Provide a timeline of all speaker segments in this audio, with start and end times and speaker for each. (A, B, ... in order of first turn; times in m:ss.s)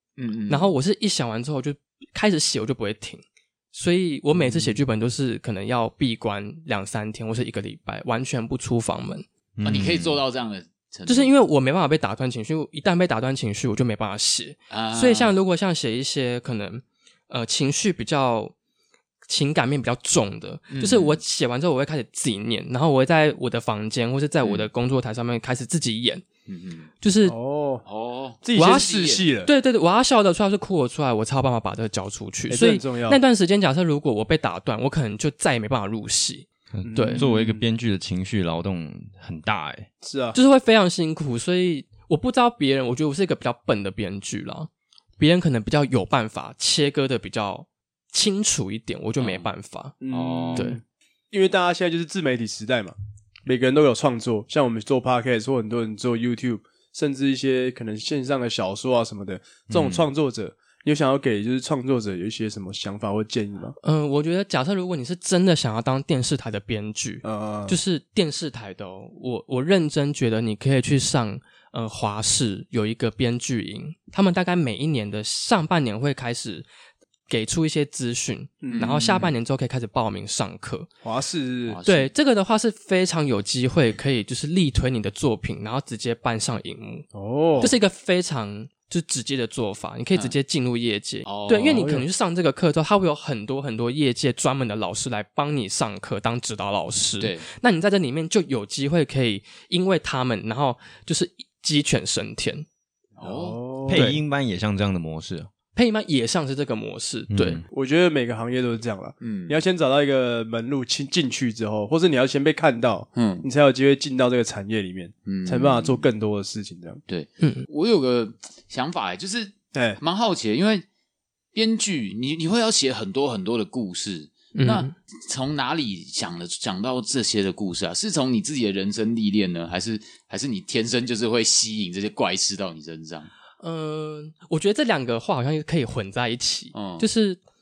0:00.2-0:00.7 A
0:00.5-0:09.2 B
0:04.4-0:04.8 C
0:09.6-0:10.2 D
0:09.6-0:11.3 A
0:11.0-0:18.5 B
0:14.7-0:15.3 A
0:19.3-0:26.2 B
0:20.7-0:21.2 A
0:24.4-0:24.7 A
0:26.5-0:26.9 A
0:27.0-0:27.4 B
0:27.2-0:27.8 C
0:27.8-0:29.2 A
0:28.4-0:29.5 C
0:28.5-0:37.2 B
0:32.5-0:33.2 C
0:36.7-0:39.9 D
0:36.8-0:37.6 C
0:40.0-0:40.4 C
0:40.3-0:49.9 B
0:49.2-0:49.5 A
0:50.0-1:03.8 C
0:50.1-0:50.7 A
0:59.7-1:00.1 D
1:03.8-1:16.7 B
1:07.2-1:07.8 C
1:17.3-1:20.9 B
1:18.6-1:19.3 C
1:18.7-1:19.3 A
1:21.0-1:21.8 C
1:21.7-1:22.1 A
1:21.8-1:27.1 B
1:27.1-1:27.7 C
1:27.6-1:42.6 B
1:31.2-1:31.9 A
1:31.7-1:32.0 C
1:37.2-1:37.4 A
1:43.2-1:43.6 A
1:43.2-1:44.1 C
1:43.9-1:45.5 D
1:43.9-1:44.2 B
1:45.7-1:47.6 B
1:47.3-1:47.6 D
1:47.7-1:57.0 C
1:49.2-1:49.6 A
1:53.1-1:53.5 A
1:55.2-1:56.1 A
1:57.1-2:00.8 A
1:57.4-1:57.6 B
1:59.7-2:00.0 C
2:01.5-2:13.3 A
2:04.5-2:04.9 B
2:13.6-2:17.4 B
2:16.7-2:17.0 A